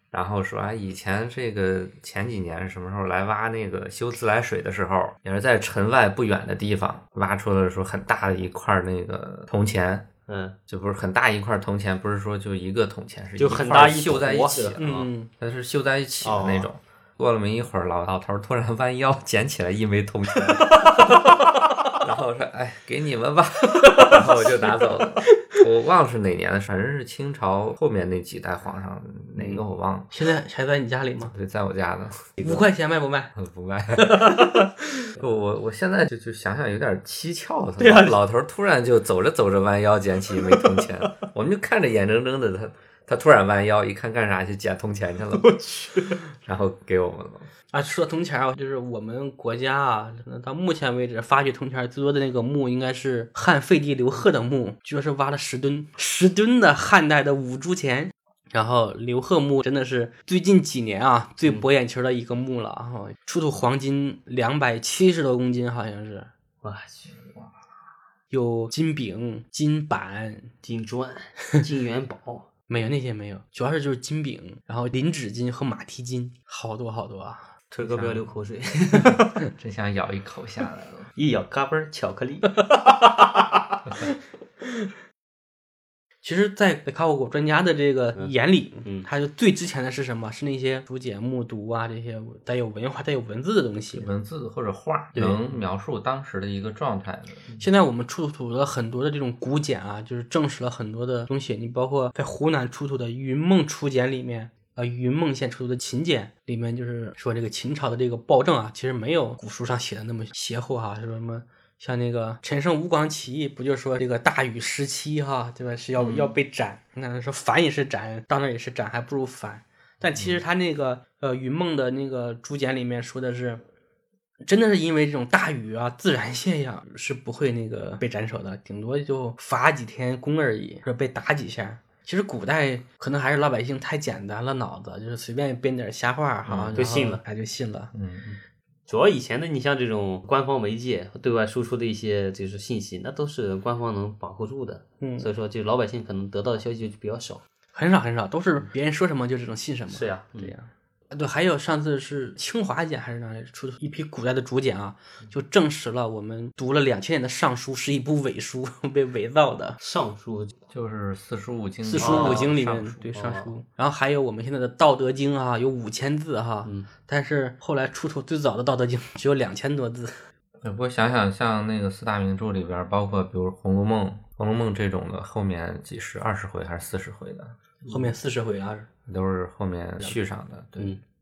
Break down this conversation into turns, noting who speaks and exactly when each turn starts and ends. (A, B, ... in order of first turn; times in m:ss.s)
0:00.1-0:10.1 A
0:10.3-0:10.6 B
0:10.7-0:21.1 A
0:13.4-0:14.8 B
0:14.8-0:15.3 C
0:16.2-0:16.7 B
0:22.0-0:30.1 A
0:30.1-0:31.3 C
0:31.3-0:32.6 A
0:32.4-0:33.3 C
0:33.4-0:45.5 A
0:34.0-0:35.1 C
0:37.8-0:38.2 B
0:45.4-0:46.2 B
0:46.4-0:47.5 A
0:47.7-1:06.3 C
1:06.6-1:07.5 B
1:08.3-1:10.5 C
1:10.6-1:12.5 B
1:12.7-1:17.5 C
1:17.7-1:19.3 B
1:17.9-1:18.2 A
1:19.6-1:21.1 A
1:21.2-1:23.8 B
1:26.2-1:34.1 C
1:34.0-1:37.4 A
1:35.2-1:35.4 B
1:37.6-2:03.6 C
1:56.0-1:56.3 B
2:04.4-2:17.9 C
2:16.5-2:16.8 A
2:16.7-2:17.2 B
2:17.9-2:18.4 A
2:18.9-2:27.4 B
2:25.0-2:25.3 C
2:27.8-2:39.8 C
2:29.9-2:30.5 B
2:39.8-2:40.6 B
2:40.7-2:43.0 A
2:41.8-2:50.2 C
2:42.0-2:42.5 B
2:43.1-2:43.5 B
2:50.6-2:57.6 A
2:57.9-2:58.9 C
2:59.1-3:01.0 A